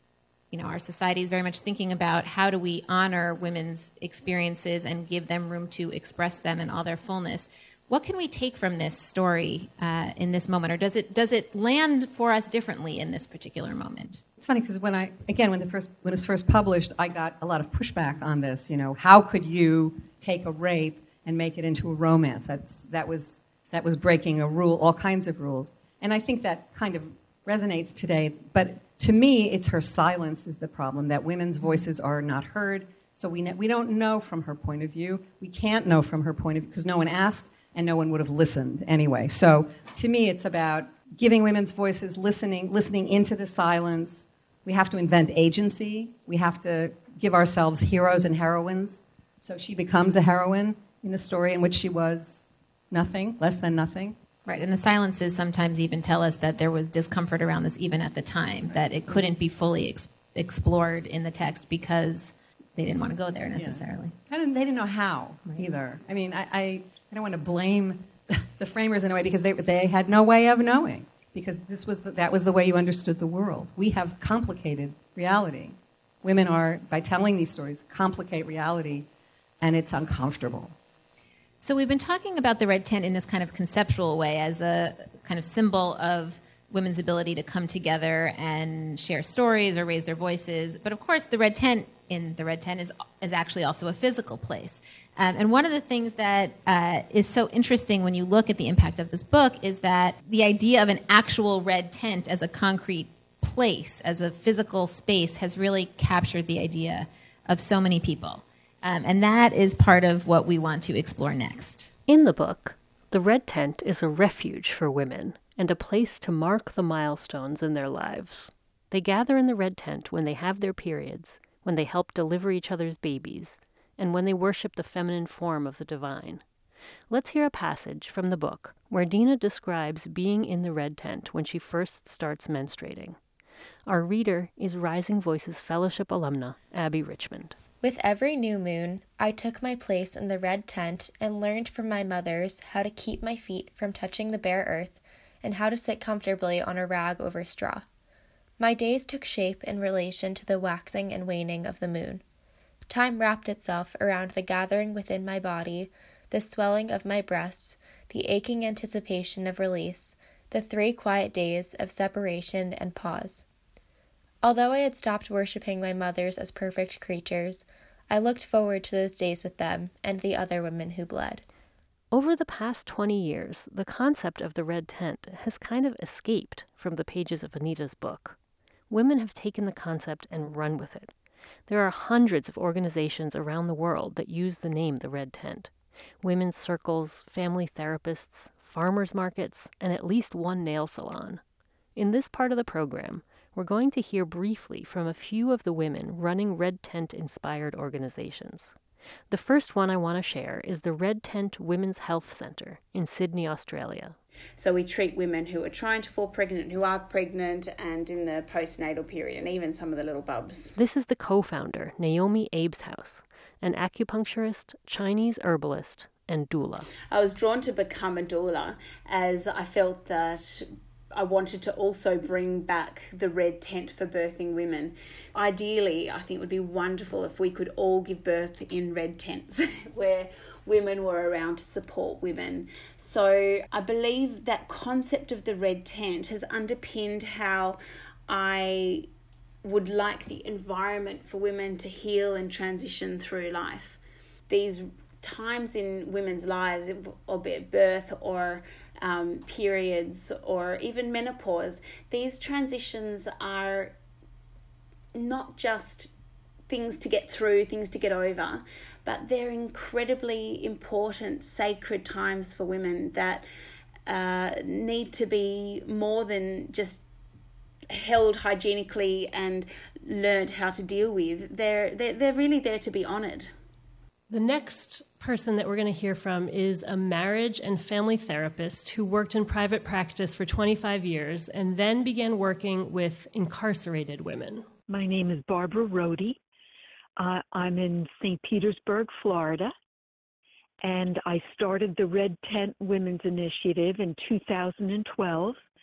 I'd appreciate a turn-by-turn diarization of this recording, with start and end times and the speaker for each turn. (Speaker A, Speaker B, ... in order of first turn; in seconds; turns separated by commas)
Speaker A: 0.5-14.2, Speaker B: 14.4-54.2, Speaker A: 54.5-64.1, Speaker B: 63.5-79.1, Speaker B: 79.6-80.7, Speaker A: 81.6-111.9, Speaker C: 112.1-126.4, Speaker C: 127.1-133.2, Speaker C: 133.8-137.6, Speaker D: 137.8-147.8, Speaker D: 148.6-152.2, Speaker D: 152.9-163.4, Speaker D: 164.4-171.4, Speaker C: 172.1-178.4, Speaker C: 178.9-181.1, Speaker C: 181.7-191.4, Speaker C: 191.9-198.7, Speaker C: 199.3-204.2, Speaker E: 204.6-210.7, Speaker C: 210.8-216.9, Speaker E: 217.1-239.1, Speaker E: 239.6-253.9, Speaker E: 255.1-256.1, Speaker E: 256.7-263.4, Speaker E: 264.1-267.0, Speaker E: 267.9-273.5, Speaker F: 274.3-284.7, Speaker G: 284.9-286.4, Speaker G: 287.2-289.7, Speaker G: 290.8-295.6